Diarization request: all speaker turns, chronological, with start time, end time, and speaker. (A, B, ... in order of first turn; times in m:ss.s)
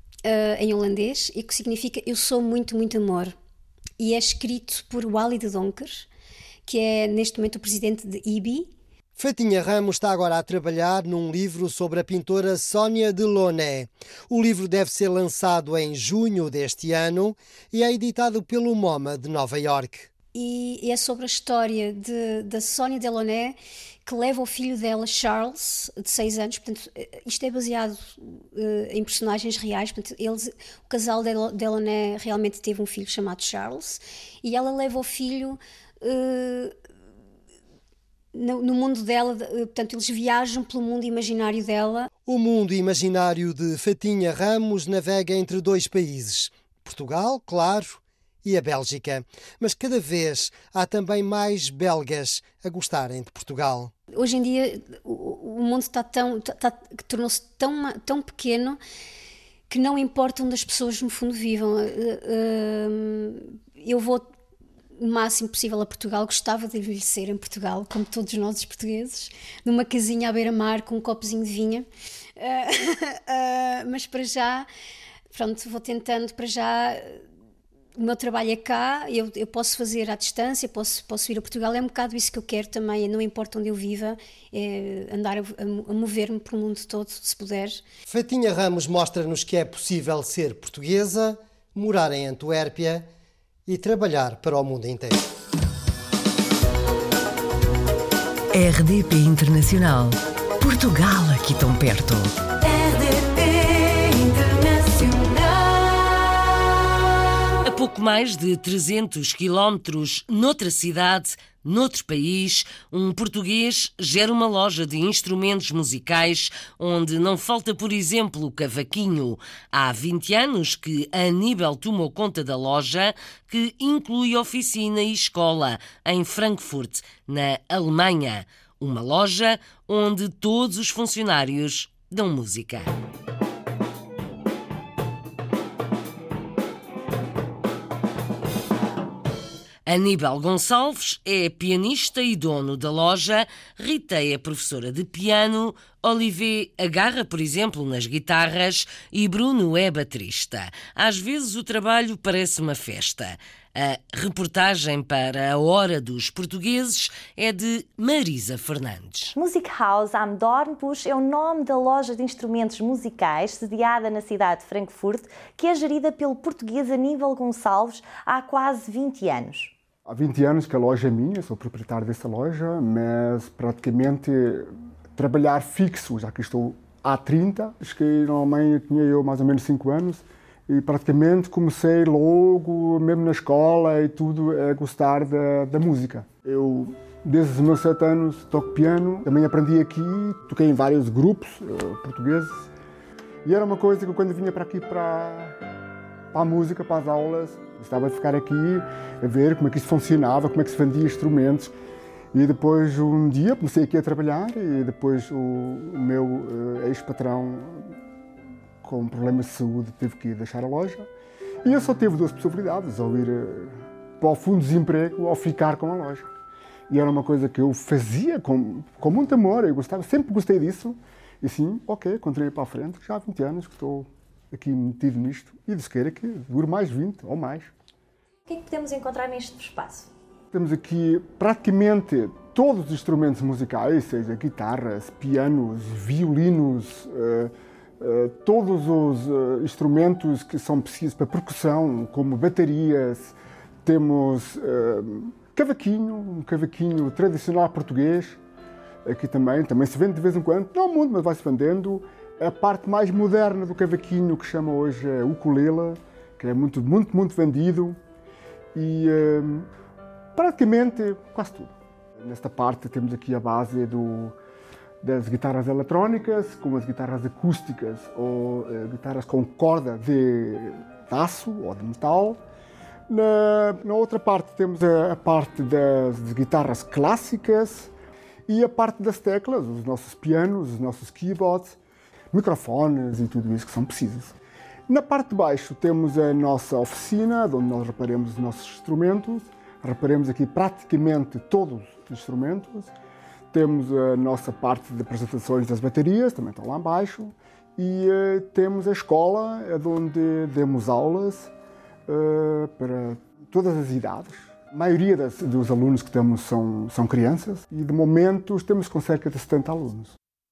0:00.2-0:03.3 A
0:04.0-0:06.1 A
0:06.7-0:08.7 A
0:09.2-0:20.1 B
0:20.3-0:36.7 A
0:38.3-0:42.1 A
0:42.2-0:53.9 B
0:54.2-0:58.8 A
0:59.7-1:04.3 A
1:05.0-1:11.9 A
1:12.4-1:14.7 A
1:15.3-1:17.2 A
1:18.0-1:27.8 A
1:28.0-1:33.1 B
1:33.7-1:35.2 B
1:38.5-1:40.1 C
1:40.8-1:42.2 C
1:47.6-2:12.9 D
2:19.9-2:39.4 D
2:39.4-2:49.7 E
2:50.1-3:12.7 F
3:13.4-3:15.6 F
3:16.3-3:21.7 F
3:22.3-3:28.0 F
3:28.8-3:31.1 F
3:31.6-3:36.3 F
3:36.9-3:47.7 F
3:48.5-3:50.0 E
3:50.5-4:08.4 F
4:09.0-4:18.0 F
4:18.7-4:19.7 F
4:20.4-4:24.3 F
4:25.0-4:32.4 F
4:33.1-4:37.9 F
4:38.5-4:41.8 F
4:42.3-4:44.3 F
4:44.9-4:52.9 F
4:53.5-5:01.5 F
5:02.1-5:10.1 F